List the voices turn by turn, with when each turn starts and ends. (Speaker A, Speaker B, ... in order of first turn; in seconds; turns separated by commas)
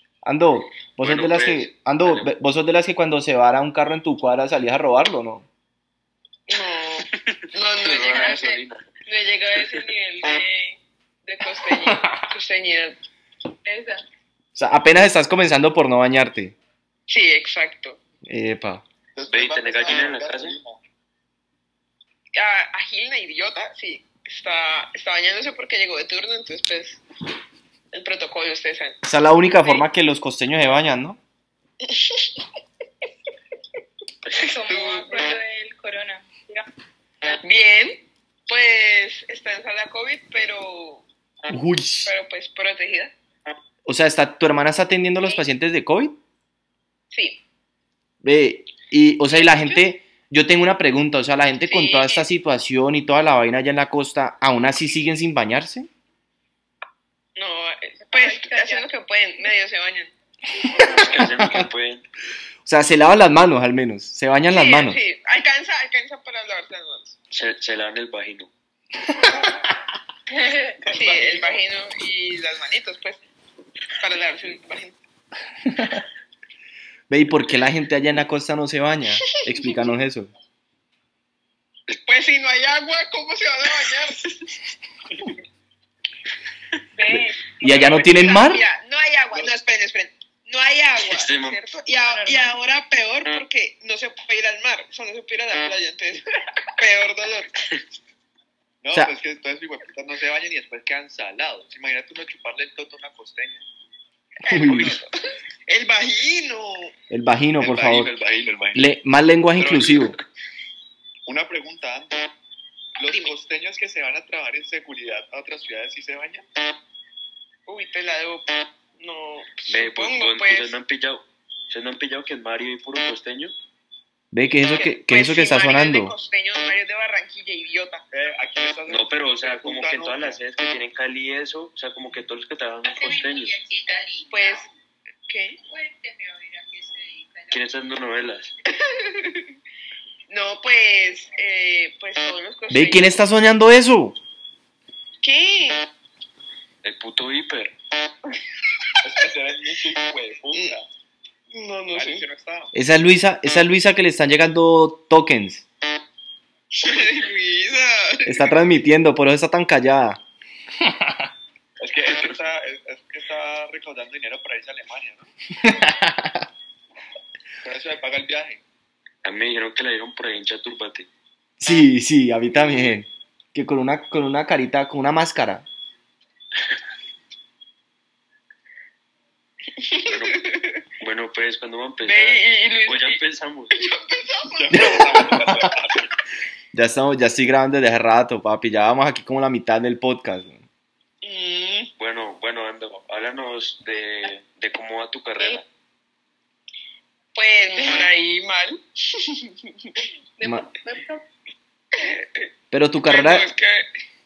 Speaker A: 0.2-5.5, Speaker B: 1.0-2.3, Speaker C: 6.5-13.0, Speaker B: 7.3-8.8, Speaker A: 11.9-12.2, Speaker C: 13.7-14.0, Speaker A: 14.5-16.6, Speaker C: 17.1-18.0, Speaker A: 18.2-18.8, Speaker D: 19.1-20.8, Speaker B: 19.2-20.6, Speaker C: 22.3-27.0, Speaker C: 27.9-29.0, Speaker A: 29.0-31.2, Speaker C: 31.8-32.4, Speaker E: 34.3-36.6, Speaker C: 34.4-35.3, Speaker C: 37.4-41.0, Speaker A: 41.5-42.1, Speaker C: 42.0-43.1, Speaker A: 43.9-46.2, Speaker C: 47.1-47.4, Speaker A: 48.2-55.9, Speaker C: 49.3-49.8, Speaker C: 51.6-52.3, Speaker C: 57.4-60.1, Speaker E: 58.1-58.9, Speaker A: 60.8-61.6, Speaker B: 60.8-62.0, Speaker A: 62.6-65.0, Speaker C: 64.5-67.1, Speaker B: 67.3-68.5, Speaker D: 70.9-71.6, Speaker C: 70.9-73.2, Speaker C: 74.0-75.0, Speaker A: 77.1-80.3, Speaker C: 82.0-84.4, Speaker C: 87.0-96.2, Speaker A: 87.1-88.6, Speaker B: 91.0-91.6, Speaker E: 92.0-92.5, Speaker C: 96.8-97.5, Speaker D: 98.8-103.6, Speaker C: 104.4-105.1, Speaker A: 104.5-105.0, Speaker C: 105.7-106.9, Speaker A: 107.1-108.1, Speaker D: 107.6-108.9, Speaker A: 108.7-110.2, Speaker D: 109.5-110.2, Speaker D: 111.2-112.3, Speaker D: 113.0-116.5, Speaker C: 113.0-113.3, Speaker C: 117.7-120.8, Speaker B: 119.7-123.5, Speaker A: 124.3-126.1, Speaker C: 124.7-128.0, Speaker D: 128.1-130.4, Speaker B: 128.9-133.6, Speaker E: 132.8-134.6, Speaker C: 134.3-134.7, Speaker C: 135.3-135.6, Speaker E: 135.6-137.7, Speaker B: 137.5-138.5, Speaker C: 138.7-139.5, Speaker C: 140.3-143.2, Speaker A: 142.7-144.2, Speaker C: 145.2-145.8, Speaker B: 146.8-147.7, Speaker D: 149.0-150.9, Speaker C: 151.5-152.2, Speaker D: 151.9-152.7, Speaker A: 152.7-155.7, Speaker C: 156.8-158.5, Speaker A: 158.2-160.2, Speaker A: 160.9-161.1, Speaker D: 161.8-165.2, Speaker A: 165.6-166.4, Speaker D: 167.6-168.6, Speaker B: 169.2-171.1, Speaker A: 171.6-175.7, Speaker C: 179.8-180.7, Speaker B: 180.0-183.7, Speaker C: 182.0-183.2, Speaker C: 183.7-185.4, Speaker D: 184.5-186.1, Speaker A: 184.7-185.7, Speaker A: 186.7-190.6, Speaker C: 191.2-191.9, Speaker B: 192.0-195.7, Speaker C: 197.3-200.0, Speaker E: 200.4-201.2, Speaker A: 200.4-200.7, Speaker C: 201.9-202.5, Speaker A: 202.7-203.5, Speaker C: 203.0-203.9